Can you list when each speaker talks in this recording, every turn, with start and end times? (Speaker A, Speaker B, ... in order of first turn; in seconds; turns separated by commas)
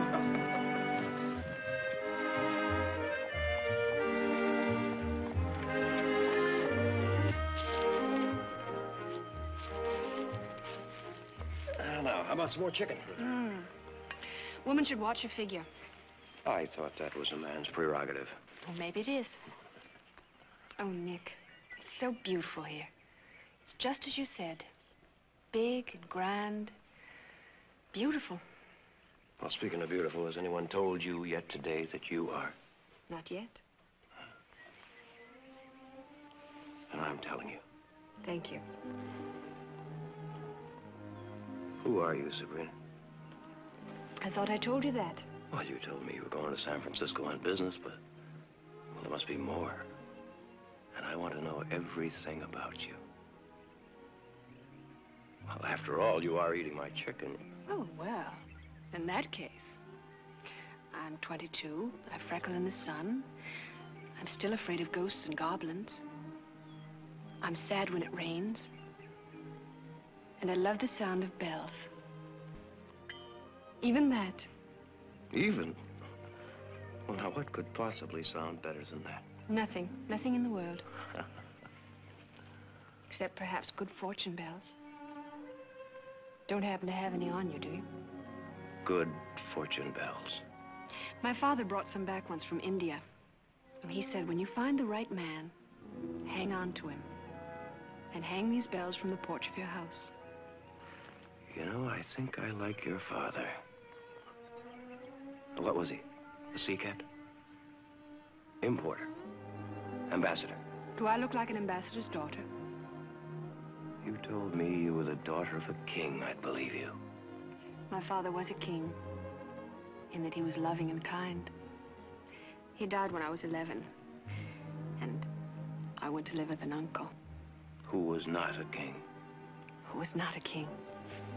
Speaker A: 11.7-13.2, Speaker B: 13.2-13.7, Speaker B: 14.6-15.7, Speaker A: 16.4-18.4, Speaker B: 18.6-19.4, Speaker B: 20.8-22.9, Speaker B: 23.6-24.7, Speaker B: 25.5-26.7, Speaker B: 27.9-28.4, Speaker A: 29.4-32.5, Speaker B: 33.1-33.6, Speaker A: 36.9-37.6, Speaker B: 38.2-38.6, Speaker A: 41.8-42.7, Speaker B: 44.2-45.3, Speaker A: 45.5-48.0, Speaker A: 48.9-49.9, Speaker A: 50.9-53.0, Speaker A: 55.5-57.5, Speaker B: 57.7-59.8, Speaker B: 60.9-63.3, Speaker B: 64.2-66.0, Speaker B: 67.4-68.7, Speaker B: 70.4-71.9, Speaker B: 73.8-74.5, Speaker A: 75.3-75.8, Speaker A: 77.0-79.2, Speaker B: 79.5-80.8, Speaker B: 83.1-84.8, Speaker B: 86.5-87.9, Speaker A: 88.8-90.4, Speaker B: 91.2-93.0, Speaker B: 93.8-95.5, Speaker B: 96.2-97.1, Speaker B: 98.1-100.1, Speaker A: 101.5-103.6, Speaker A: 105.5-107.0, Speaker A: 108.6-109.1, Speaker A: 110.1-110.6, Speaker B: 111.0-112.5, Speaker A: 114.0-117.0, Speaker B: 117.9-119.0, Speaker B: 120.1-121.5, Speaker B: 122.8-123.9, Speaker B: 125.0-125.3, Speaker B: 126.0-127.1, Speaker A: 127.8-129.0, Speaker B: 129.8-130.7